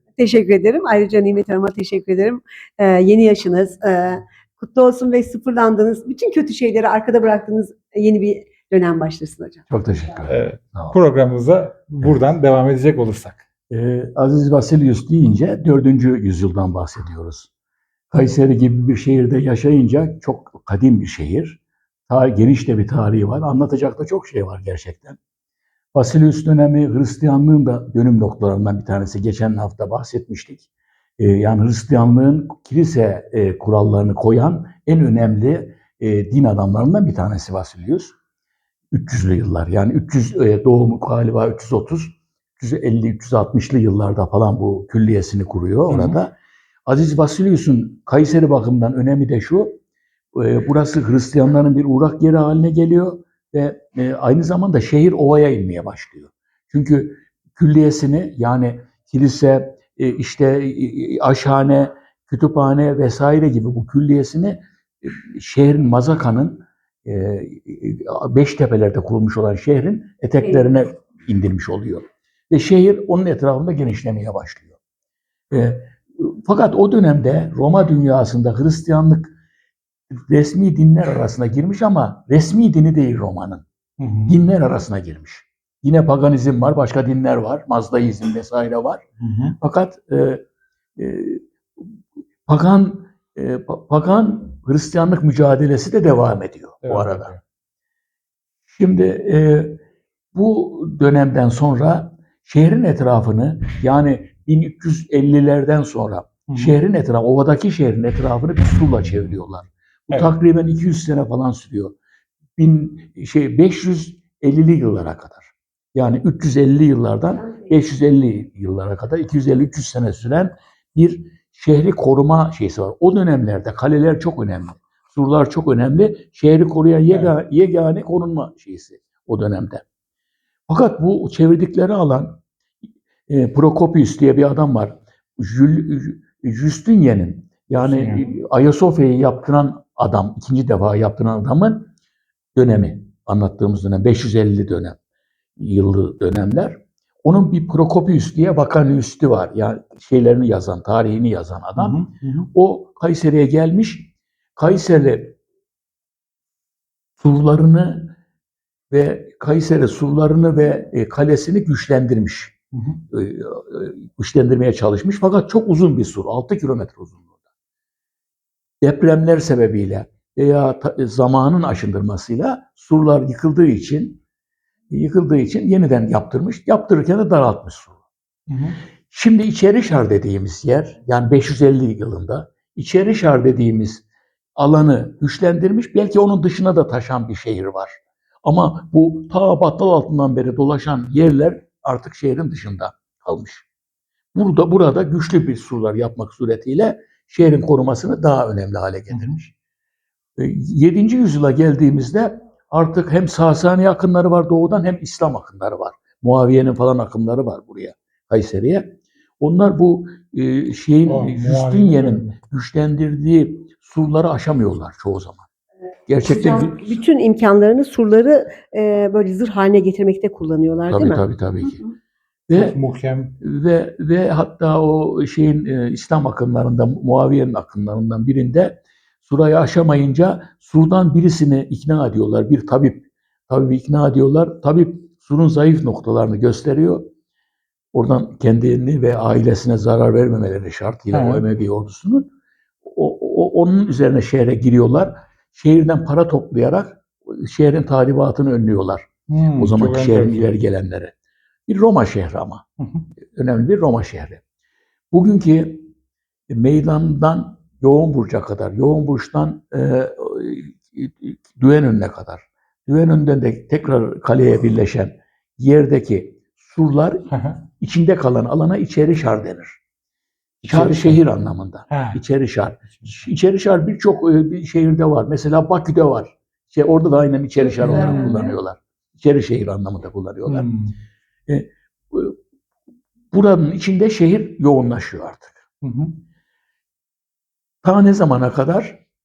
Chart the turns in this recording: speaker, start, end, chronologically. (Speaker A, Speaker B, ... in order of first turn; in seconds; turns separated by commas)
Speaker A: 0.2-9.6, Speaker B: 9.7-10.9, Speaker C: 10.3-13.4, Speaker B: 13.7-17.5, Speaker B: 18.1-25.2, Speaker B: 25.9-38.1, Speaker B: 38.9-46.3, Speaker C: 45.9-46.2, Speaker B: 46.9-49.8, Speaker B: 50.3-74.8, Speaker B: 75.5-79.3, Speaker B: 80.1-83.6, Speaker C: 84.0-84.4, Speaker B: 84.3-89.0, Speaker C: 89.2-89.6, Speaker B: 89.6-90.4, Speaker B: 91.0-91.9, Speaker B: 92.5-97.3, Speaker C: 96.8-97.4, Speaker B: 98.7-99.8, Speaker B: 100.3-111.9, Speaker C: 106.5-106.8, Speaker B: 112.6-129.8, Speaker A: 117.3-117.7, Speaker C: 127.1-127.3, Speaker B: 130.7-132.4, Speaker B: 133.3-141.9, Speaker C: 137.8-138.3, Speaker B: 142.5-145.0, Speaker B: 145.6-155.3, Speaker C: 151.8-152.5, Speaker B: 157.2-158.2, Speaker B: 158.9-162.5, Speaker C: 162.7-163.0, Speaker B: 163.1-167.2, Speaker B: 168.8-174.2, Speaker B: 174.9-178.0, Speaker C: 178.5-178.8, Speaker B: 179.1-184.0, Speaker B: 184.6-193.7, Speaker B: 194.3-199.5, Speaker C: 199.1-199.4, Speaker B: 200.4-215.4, Speaker C: 211.0-212.3, Speaker B: 216.1-217.0, Speaker A: 216.2-221.2, Speaker B: 220.9-221.8, Speaker B: 222.5-222.8, Speaker C: 222.5-223.3, Speaker B: 223.4-237.1, Speaker B: 237.9-242.3, Speaker C: 241.1-241.4, Speaker B: 242.8-251.1, Speaker C: 249.3-250.5, Speaker B: 251.7-252.6, Speaker C: 252.8-253.1, Speaker B: 253.3-254.4, Speaker B: 255.1-255.9, Speaker B: 256.5-269.8, Speaker C: 267.3-267.6, Speaker B: 270.6-280.7, Speaker C: 270.7-271.2, Speaker C: 271.9-272.2, Speaker C: 272.9-273.2, Speaker A: 277.6-278.5, Speaker C: 277.8-278.4, Speaker C: 280.5-280.9, Speaker B: 281.5-282.4, Speaker B: 283.3-285.6, Speaker C: 285.8-286.2, Speaker B: 287.8-289.0